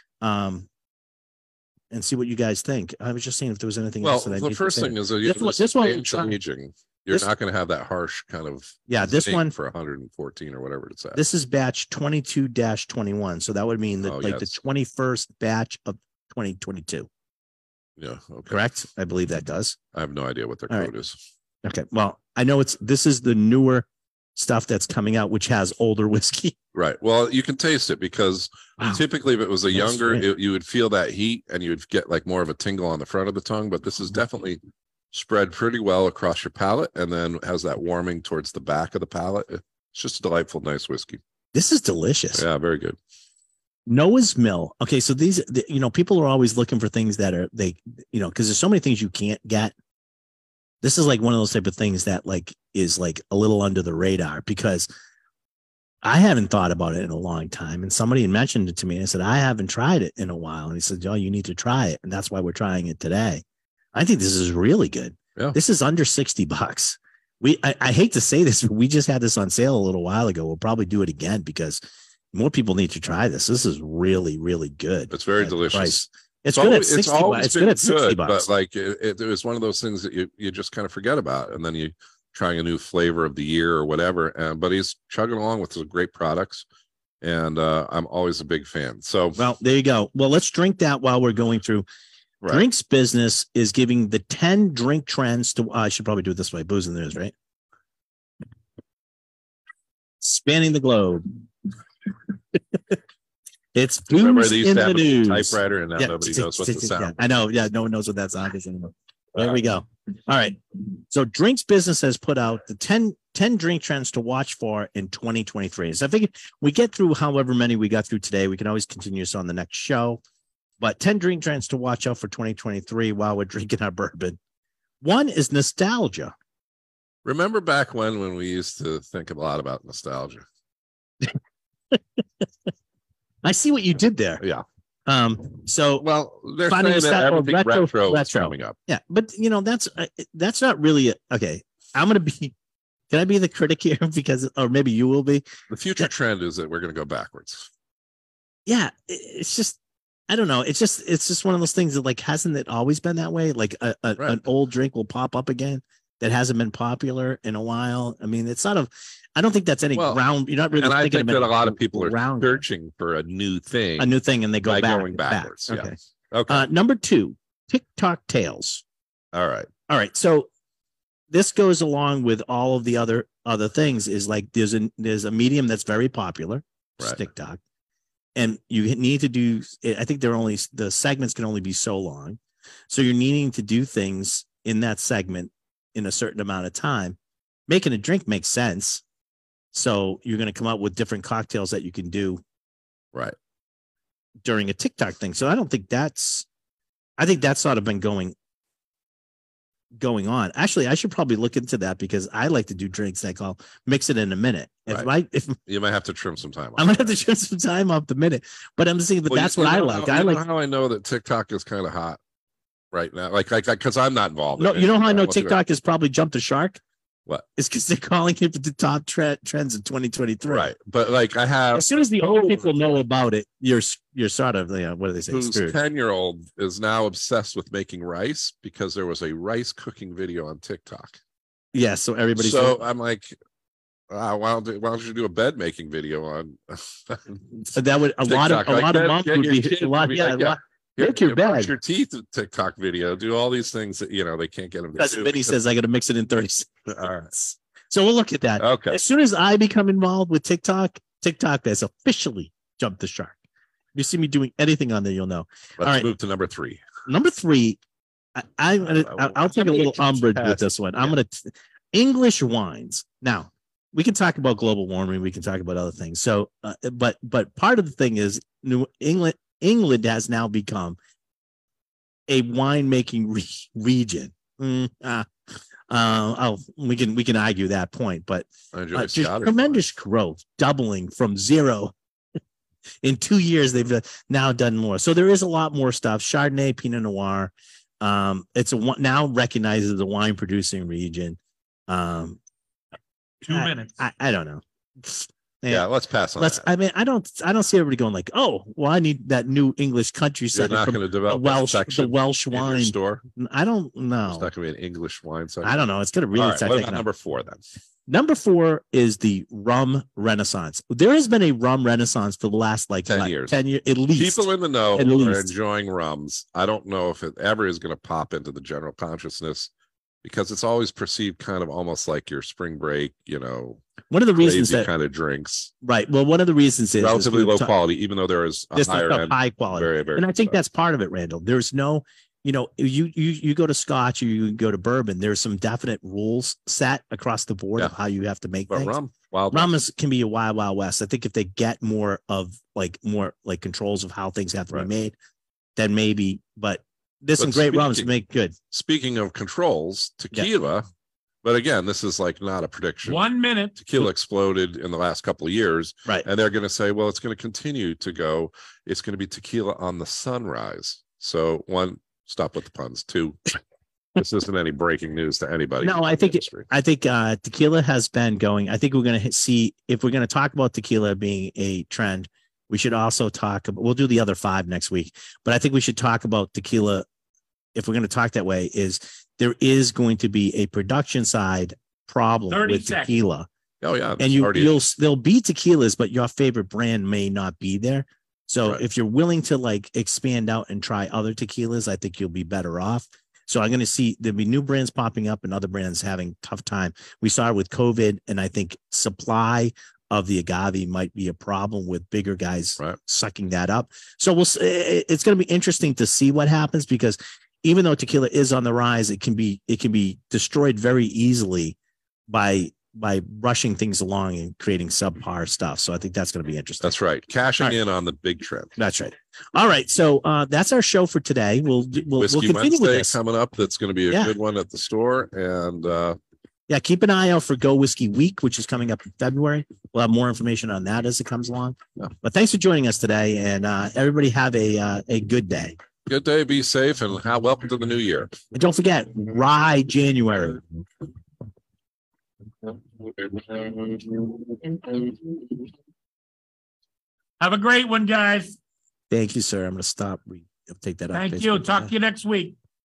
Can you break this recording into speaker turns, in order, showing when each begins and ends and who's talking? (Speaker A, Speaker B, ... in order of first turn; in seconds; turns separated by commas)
Speaker A: 0.2-0.7, Speaker A: 1.9-6.3, Speaker B: 4.0-11.2, Speaker A: 8.9-9.6, Speaker A: 11.2-17.1, Speaker B: 14.1-14.6, Speaker B: 18.0-18.6, Speaker A: 18.5-19.8, Speaker B: 19.9-21.2, Speaker A: 21.6-26.6, Speaker B: 26.7-34.6, Speaker A: 29.7-30.2, Speaker B: 35.1-41.2, Speaker A: 41.5-42.4, Speaker B: 42.4-43.0, Speaker A: 43.9-49.7, Speaker A: 50.8-54.9, Speaker A: 56.0-71.8, Speaker A: 72.3-78.5, Speaker B: 75.1-76.0, Speaker B: 76.5-86.7, Speaker B: 87.2-89.4, Speaker A: 89.4-91.9, Speaker A: 92.4-97.3, Speaker A: 100.2-101.3, Speaker A: 102.5-103.0, Speaker A: 103.7-120.2, Speaker B: 104.1-107.2, Speaker A: 120.8-124.4, Speaker A: 125.0-126.3, Speaker B: 127.2-130.4, Speaker A: 133.4-134.4, Speaker A: 135.1-136.1, Speaker B: 136.0-138.8, Speaker A: 136.7-142.5, Speaker A: 143.1-145.4, Speaker B: 145.7-147.7, Speaker A: 148.7-149.8, Speaker A: 150.3-162.6, Speaker B: 159.9-164.1, Speaker A: 164.0-165.9, Speaker B: 164.7-166.7, Speaker A: 166.5-168.8, Speaker B: 169.3-169.7, Speaker A: 169.9-170.5, Speaker A: 171.3-177.6, Speaker A: 178.4-182.4, Speaker A: 182.9-187.2, Speaker A: 187.7-189.0, Speaker A: 189.7-192.4, Speaker A: 194.4-196.5, Speaker A: 197.2-198.3, Speaker A: 200.0-205.6, Speaker B: 205.7-207.2, Speaker A: 206.8-210.4, Speaker B: 209.3-212.2, Speaker B: 212.9-215.6, Speaker A: 214.6-216.8, Speaker A: 217.6-220.7, Speaker B: 220.5-222.7, Speaker A: 221.7-225.8, Speaker B: 225.3-231.2, Speaker A: 231.7-232.8, Speaker B: 232.4-233.4, Speaker B: 234.1-237.7, Speaker A: 237.7-241.7, Speaker B: 238.2-245.6, Speaker A: 245.0-246.8, Speaker B: 246.9-247.3, Speaker A: 247.3-253.4, Speaker B: 248.6-249.0, Speaker A: 253.9-256.1, Speaker B: 255.8-256.8, Speaker A: 257.1-257.8, Speaker A: 258.4-271.0, Speaker B: 258.9-261.1, Speaker A: 272.3-275.3, Speaker A: 275.9-281.9, Speaker B: 278.7-279.8, Speaker A: 283.0-292.4, Speaker C: 293.4-293.9, Speaker A: 293.5-304.5, Speaker B: 295.7-296.7, Speaker B: 300.5-303.2, Speaker B: 304.2-305.8, Speaker A: 305.6-307.1, Speaker B: 306.3-307.6, Speaker A: 308.1-315.5, Speaker B: 313.1-313.6, Speaker B: 314.1-319.7, Speaker B: 320.2-323.8, Speaker A: 324.1-324.9, Speaker B: 324.4-325.7, Speaker A: 325.8-327.7, Speaker B: 327.0-330.6, Speaker A: 328.8-338.9, Speaker B: 338.7-339.7, Speaker A: 339.5-345.1, Speaker A: 345.8-348.6, Speaker B: 347.4-348.1, Speaker B: 348.7-350.9, Speaker B: 351.4-363.4, Speaker C: 353.1-353.8, Speaker B: 364.2-366.7, Speaker A: 365.8-377.1, Speaker A: 377.8-383.5, Speaker C: 382.5-383.2, Speaker B: 383.8-384.8, Speaker A: 384.2-411.8, Speaker A: 412.3-416.9, Speaker B: 416.8-418.7, Speaker A: 418.8-423.1, Speaker B: 422.2-426.2, Speaker A: 426.7-435.8, Speaker B: 436.1-438.3, Speaker A: 438.5-440.6, Speaker C: 442.6-445.7, Speaker C: 447.4-448.6, Speaker A: 449.1-451.9, Speaker C: 451.1-452.6